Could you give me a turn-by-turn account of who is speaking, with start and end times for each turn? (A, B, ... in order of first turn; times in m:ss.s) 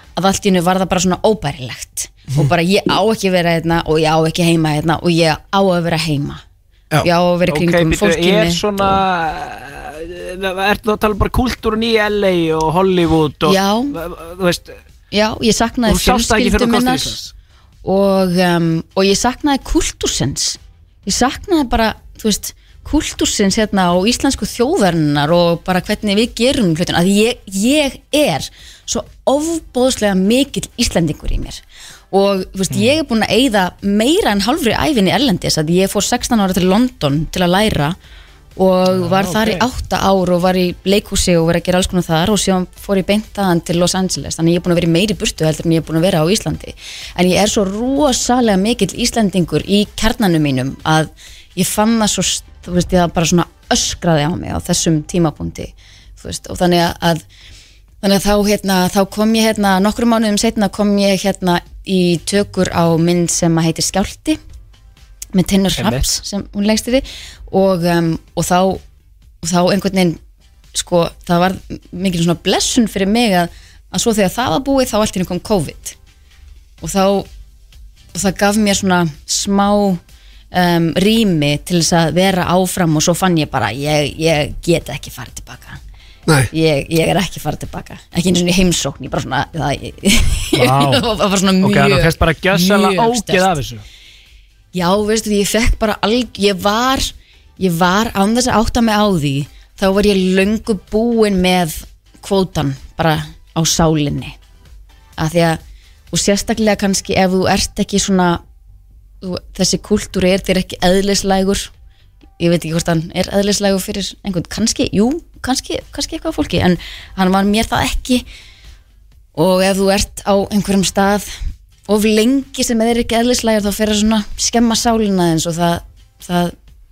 0:00.2-0:06.4 A
0:07.0-0:08.9 A
0:07.5-0:14.8 B
0:13.5-0:14.0 A
0:15.1-0:17.2 A
0:15.9-0:17.3 B
0:17.8-0:38.0 A
0:38.6-0:57.2 A
0:38.9-0:39.7 B
0:58.0-1:04.4 A
1:05.3-1:08.8 A
1:05.8-1:06.1 B
1:09.4-1:10.2 A
1:10.7-1:16.0 A
1:16.8-1:17.3 A
1:18.1-1:20.0 A
1:20.5-1:25.8 A
1:26.5-1:33.6 A
1:30.6-1:31.0 B
1:31.6-1:33.8 B
1:34.7-1:44.4 A
1:45.2-1:45.6 A
1:46.1-1:48.4 A
1:49.2-1:51.7 A
1:52.4-1:58.2 A
1:59.4-2:01.3 A
2:01.9-2:06.5 A